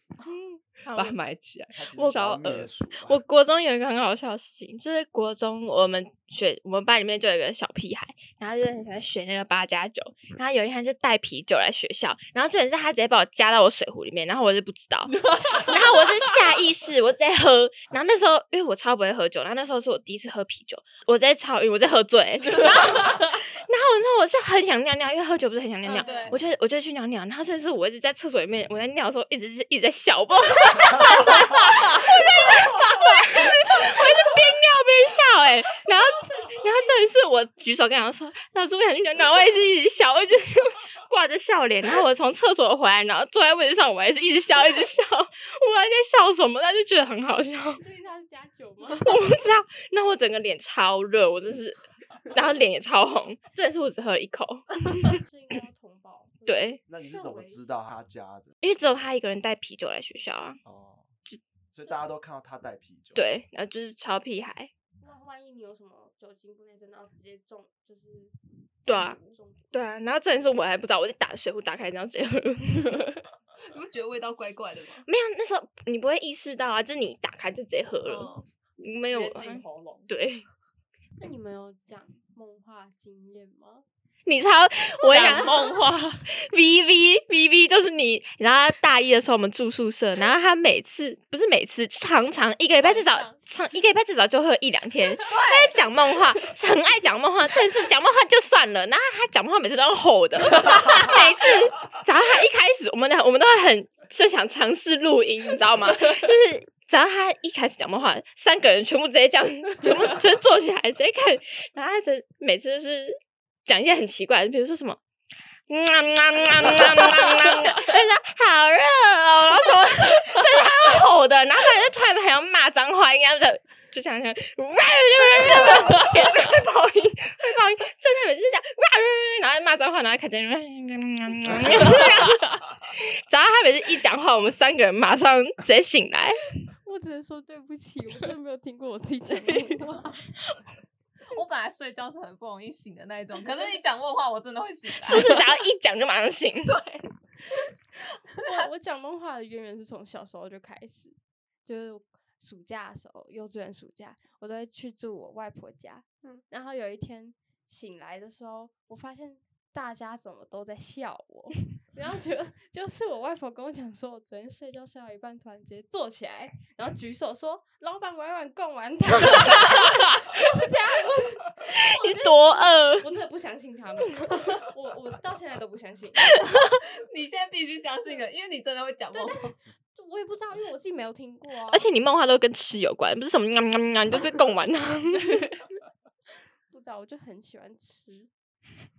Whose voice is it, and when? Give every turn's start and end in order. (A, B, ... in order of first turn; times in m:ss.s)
0:00.2-0:01.2 A
0:00.9-0:02.7 B
0:01.7-0:03.2 C
0:02.3-0:47.8 A
0:15.1-0:15.8 B
0:22.6-0:23.2 B
0:25.8-0:26.3 D
0:25.9-0:26.4 E
0:36.2-0:37.0 D
0:47.8-0:49.2 D
0:49.0-0:55.2 A
0:55.0-0:57.6 D
0:56.4-0:56.8 A
0:56.9-0:58.5 C
0:58.6-1:00.6 A
1:00.6-1:01.1 C
1:01.7-1:03.2 C
1:03.1-1:04.7 A
1:05.0-1:08.3 D
1:08.8-1:09.7 D
1:08.8-1:09.2 A
1:09.7-1:13.0 A
1:13.7-1:15.0 E
1:15.0-1:20.5 A
1:19.1-1:20.0 B
1:21.2-1:23.8 D
1:24.2-1:55.0 A
1:25.0-1:26.2 B
1:32.8-1:33.4 E
1:35.2-1:35.7 E
1:55.7-2:16.5 A
2:16.8-2:20.2 D
2:21.3-2:25.4 E
2:25.0-2:26.8 A
2:26.6-2:27.0 E
2:28.4-2:56.3 D
2:52.0-2:53.0 A
2:57.1-2:59.5 E
2:59.1-3:01.9 D
3:01.7-3:05.6 A
3:06.7-3:08.3 D